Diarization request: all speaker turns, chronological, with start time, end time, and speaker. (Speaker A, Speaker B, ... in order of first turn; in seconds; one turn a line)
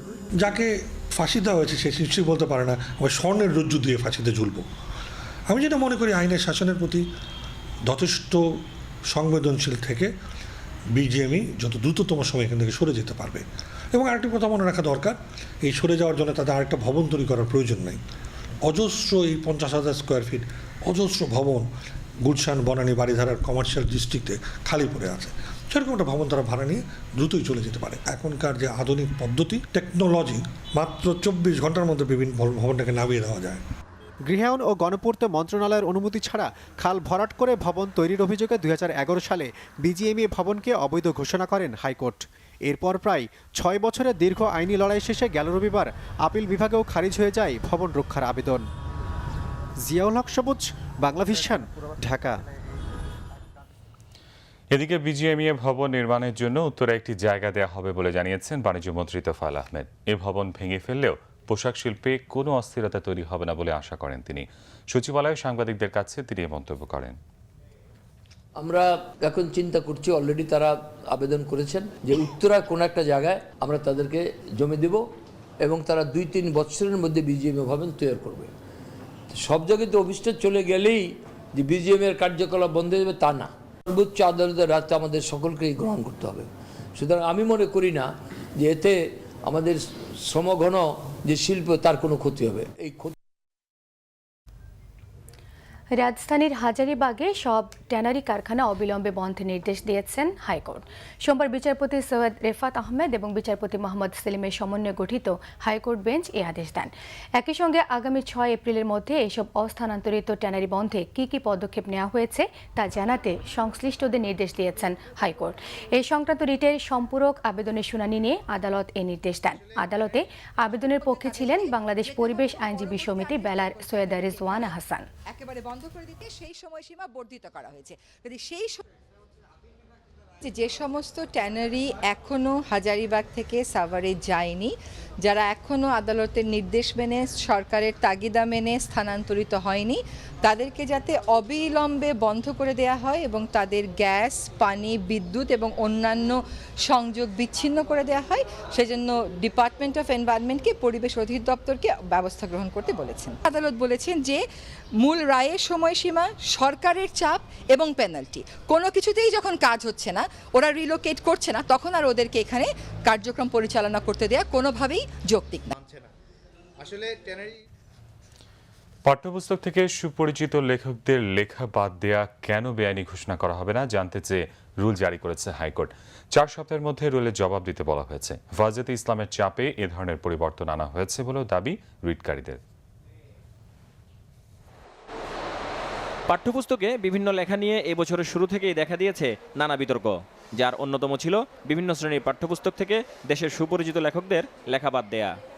Speaker A: 0.4-4.7
Speaker A: 5.5-7.1
Speaker A: 7.9-10.1
Speaker A: 10.9-18.0
Speaker A: 18.6-21.7
Speaker A: 22.2-33.6
Speaker B: 34.2-48.7
Speaker B: 49.9-52.4
Speaker C: 54.7-67.2
Speaker D: 68.6-75.0
Speaker D: 75.6-78.5
Speaker D: 79.3-93.1
Speaker E: 96.0-125.0
Speaker F: 121.1-124.7
Speaker F: 125.3-128.8
Speaker F: 130.4-154.4
Speaker F: 155.0-165.7
Speaker C: 169.1-182.6
Speaker G: 186.3-190.1
Speaker G: 190.6-195.3